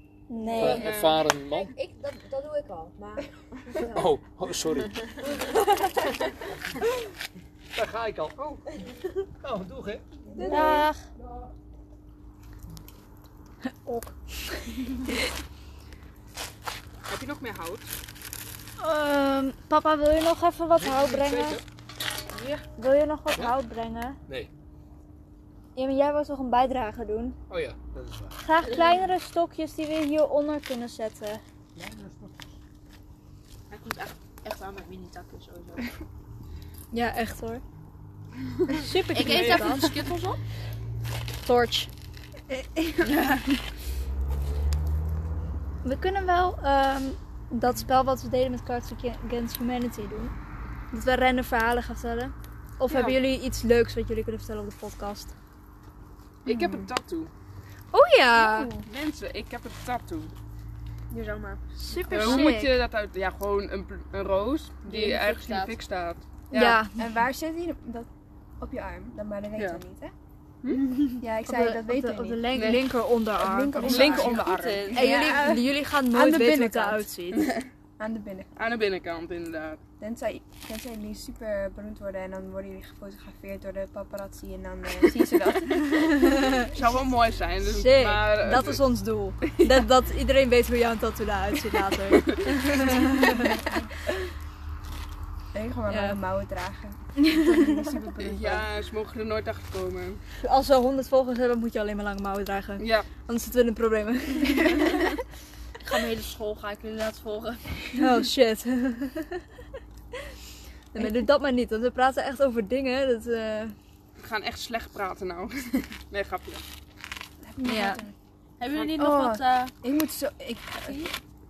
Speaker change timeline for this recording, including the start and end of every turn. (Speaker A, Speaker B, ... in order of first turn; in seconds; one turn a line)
Speaker A: 0.3-0.9
Speaker B: 0.5-1.7
Speaker C: 0.5-3.9
Speaker D: 0.7-1.2
Speaker B: 3.9-5.0
Speaker C: 5.3-6.3
Speaker B: 7.7-8.4
Speaker C: 8.4-8.6
Speaker B: 9.4-10.0
Speaker E: 10.4-10.8
Speaker A: 10.4-11.0
Speaker C: 10.4-10.8
Speaker A: 13.8-15.1
Speaker D: 17.1-17.9
Speaker A: 18.8-21.6
Speaker B: 20.8-21.6
Speaker C: 22.3-22.6
Speaker A: 22.8-24.2
Speaker A: 25.7-27.4
Speaker B: 27.5-28.4
Speaker A: 28.4-31.4
Speaker C: 28.7-29.0
Speaker B: 31.7-32.5
Speaker C: 33.7-35.9
Speaker A: 36.9-37.6
Speaker A: 38.7-40.0
Speaker C: 39.1-40.4
Speaker D: 39.2-39.7
Speaker A: 41.4-41.9
Speaker E: 42.5-43.2
Speaker A: 43.0-43.4
Speaker A: 45.8-50.3
Speaker A: 50.9-55.3
Speaker D: 52.9-53.2
Speaker D: 56.4-57.3
Speaker E: 56.5-56.9
Speaker A: 57.9-58.7
Speaker E: 58.3-58.9
Speaker D: 58.8-60.3
Speaker C: 61.1-62.5
Speaker A: 61.8-62.7
Speaker D: 62.1-66.8
Speaker C: 64.8-65.8
Speaker A: 66.5-67.0
Speaker E: 67.0-68.1
Speaker E: 68.6-70.1
Speaker D: 69.5-69.8
Speaker E: 71.2-72.7
Speaker A: 71.5-74.3
Speaker D: 72.5-72.8
Speaker E: 73.4-77.1
Speaker D: 73.8-75.0
Speaker C: 73.8-75.2
Speaker A: 74.9-77.5
Speaker E: 78.0-78.5
Speaker D: 78.6-79.8
Speaker E: 80.0-86.2
Speaker A: 86.0-86.5
Speaker D: 86.5-88.8
Speaker A: 87.7-93.7
Speaker E: 93.3-93.8
Speaker E: 95.5-98.7
Speaker A: 95.9-96.2
Speaker D: 98.2-100.2
Speaker A: 100.4-105.2
Speaker D: 102.8-103.1
Speaker C: 105.8-108.1
Speaker A: 107.9-109.4
Speaker A: 110.9-113.8
Speaker D: 114.2-116.6
Speaker E: 117.4-118.1
Speaker A: 117.6-118.0
Speaker C: 118.6-119.7
Speaker D: 118.7-119.0
Speaker E: 119.0-121.1
Speaker C: 120.7-121.1